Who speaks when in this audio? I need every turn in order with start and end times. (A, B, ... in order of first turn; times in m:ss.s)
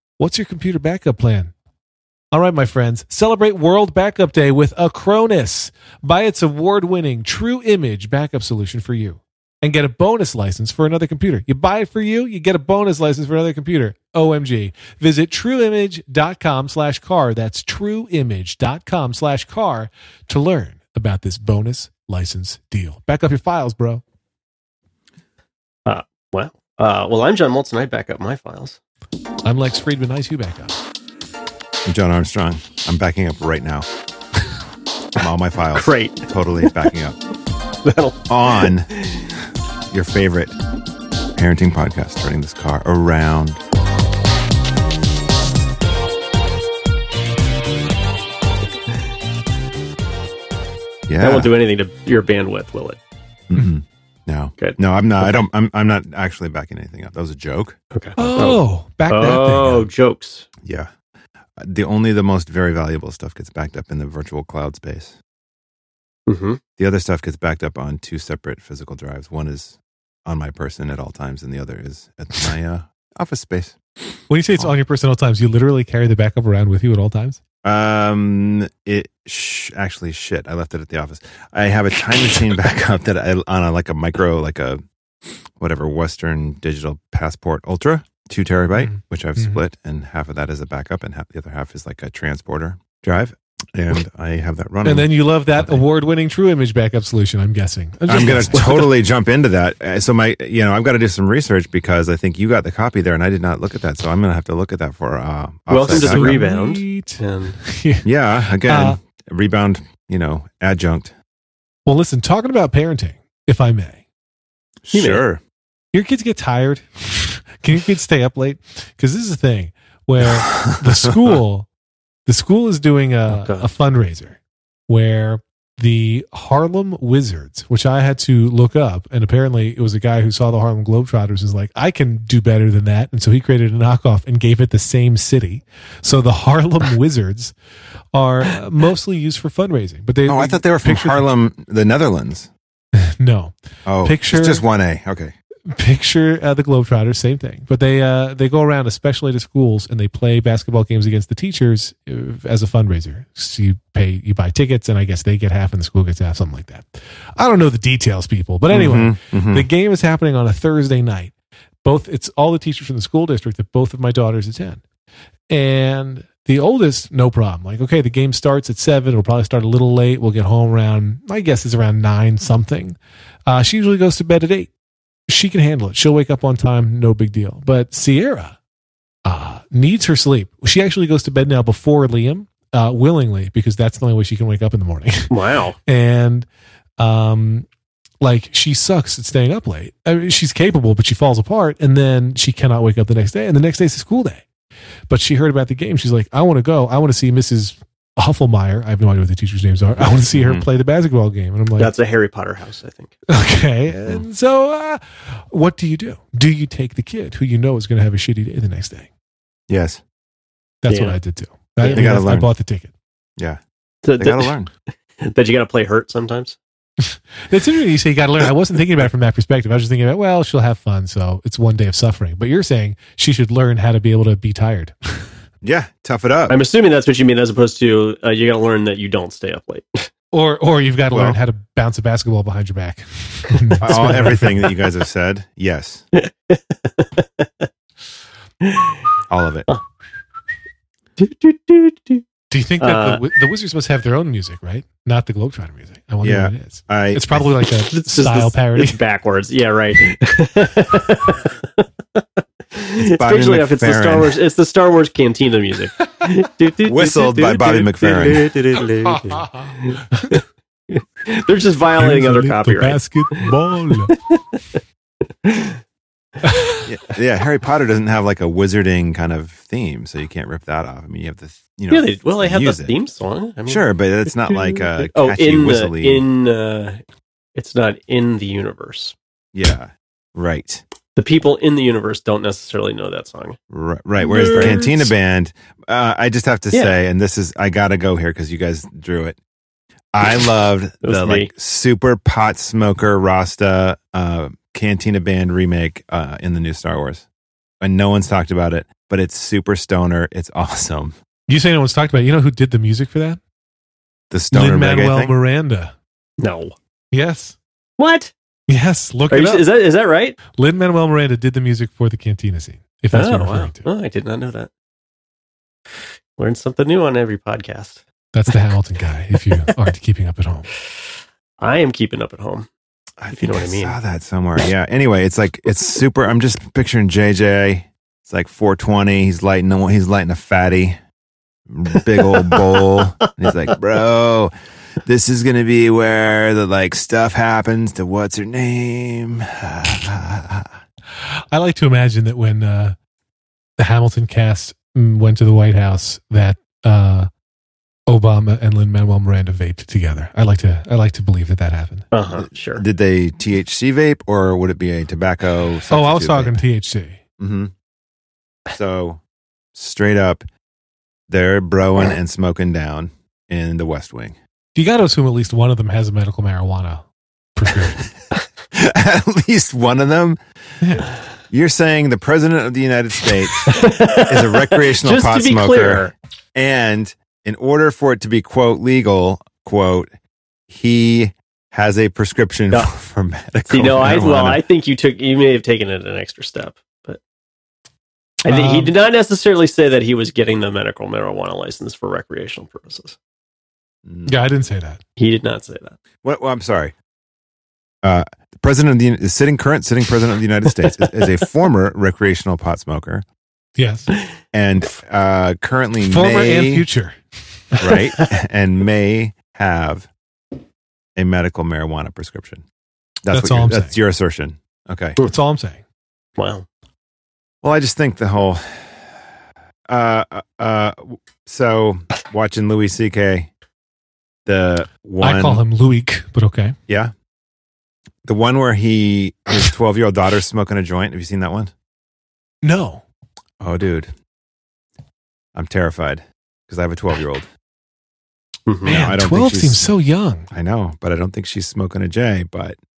0:00.2-0:01.5 A
0:02.3-0:24.0 A
0:25.9-0:28.8 B
0:29.4-0:30.8 A
0:31.9-0:33.9 C
0:35.2-0:37.2 C
0:35.7-0:36.7 B
0:37.8-0:39.3 B
0:38.3-0:38.9 C
0:39.9-0:40.6 C
0:41.4-0:43.6 C
0:51.1-0:51.5 C
0:51.2-0:53.0 B
0:53.5-0:57.8 C
0:54.6-0:55.4 B
0:57.9-1:00.5 B
0:58.2-0:59.9 A
1:00.6-1:00.9 C
1:01.6-1:05.2 C
1:06.3-1:06.6 B
1:06.8-1:13.8 C
1:14.3-1:17.4 A
1:17.6-1:35.8 C
1:28.8-1:29.6 A
1:34.8-1:38.9 A
1:38.1-1:46.4 C
1:45.7-1:47.6 B
1:45.9-1:48.1 A
1:48.0-1:51.1 C
1:48.6-1:49.0 A
1:51.9-1:54.0 A
1:54.9-1:55.4 C
1:54.9-1:55.2 B
1:55.9-2:01.7 A
2:00.2-2:01.4 C
2:02.3-2:17.5 A
2:03.3-2:03.7 B
2:18.1-2:21.2 A
2:20.3-2:22.5 C
2:23.0-2:24.6 A
2:23.9-2:25.3 C
2:25.7-2:41.3 A
2:38.7-2:39.7 C
2:41.8-2:44.8 A
2:45.5-2:54.7 A
2:55.3-2:58.6 A
2:59.3-3:05.3 A
3:05.3-3:05.8 B
3:05.9-3:06.5 A
3:07.0-3:07.7 A
3:08.2-3:14.4 A
3:15.1-3:21.9 A
3:20.3-3:20.6 C
3:21.8-3:23.1 B
3:23.3-3:29.1 A
3:23.9-3:24.2 C
3:29.7-3:30.0 C
3:30.8-3:32.9 A
3:30.9-3:31.2 B
3:31.8-3:32.1 B
3:31.9-3:32.5 C
3:34.0-3:34.6 B
3:34.2-3:34.7 C
3:35.2-3:36.6 B
3:37.0-3:45.2 A
3:45.6-3:46.6 C
3:46.5-3:50.1 B
3:50.3-3:54.7 A
3:51.1-3:51.4 C
3:53.8-3:56.0 C
3:56.1-3:57.7 B
3:58.6-3:59.0 B
3:59.3-3:59.7 C
4:01.2-4:02.2 B
4:02.5-4:09.0 A
4:02.8-4:03.2 B
4:06.2-4:07.4 C
4:07.9-4:23.5 B
4:13.0-4:14.3 C
4:16.9-4:18.6 C
4:19.1-4:20.4 A
4:22.0-4:24.1 A
4:24.0-4:24.8 B
4:25.4-4:25.8 B
4:26.4-4:26.8 A
4:26.9-4:32.9 C
4:31.9-4:37.0 B
4:33.7-4:36.2 C
4:37.6-4:39.2 B
4:39.5-4:40.8 C
4:41.2-4:43.6 B
4:43.7-4:49.4 C
4:44.2-4:45.1 B
4:50.1-4:57.2 C
4:51.0-4:51.5 B
4:57.8-5:01.1 C
5:01.5-5:03.4 A
5:04.3-5:05.3 C
5:04.5-5:05.9 A
5:06.4-5:06.8 B
5:07.1-5:07.6 A
5:08.0-5:08.3 B
5:08.7-5:09.7 A
5:09.3-5:10.4 B
5:10.6-5:13.9 A
5:13.1-5:14.7 B
5:16.4-5:18.6 B
5:18.3-5:20.7 A
5:21.6-5:22.7 B
5:23.2-5:31.0 C
5:23.3-5:24.0 B
5:31.7-5:34.5 C
5:35.0-5:40.7 C
5:41.2-5:43.0 A
5:43.8-5:47.3 A
5:48.1-5:52.1 A
5:52.1-5:52.8 B
5:52.4-5:56.6 C
5:55.9-5:57.2 A
5:57.4-5:57.7 C
5:58.7-5:59.2 C
5:59.7-6:00.4 C
6:01.3-6:04.4 C
6:04.8-6:08.1 A
6:08.7-6:10.4 C
6:10.8-6:11.1 A
6:11.5-6:20.1 C
6:13.6-6:16.1 B
6:20.7-6:24.6 C
6:23.7-6:27.2 B
6:28.4-6:33.2 B
6:28.5-6:28.9 A
6:34.1-6:34.4 C
6:34.2-6:35.0 A
6:35.2-6:36.0 B
6:36.2-6:36.9 C
6:38.0-6:43.2 C
6:43.8-6:44.1 A
6:44.5-6:46.9 C
6:46.0-6:47.2 A
6:47.8-6:50.1 C
6:51.2-6:52.6 C
6:53.2-6:55.2 C
6:53.3-6:54.0 A
6:55.2-6:55.8 A
6:56.4-6:56.7 B
6:57.6-6:59.2 C
6:59.9-7:03.5 C
7:04.5-7:05.6 C
7:05.2-7:06.8 A
7:06.9-7:07.1 C
7:08.2-7:11.7 C
7:12.6-7:13.0 A
7:13.6-7:14.1 C
7:15.6-7:17.5 C
7:18.7-7:19.0 B
7:18.8-7:19.8 C
7:18.8-7:20.5 A
7:20.5-7:22.8 C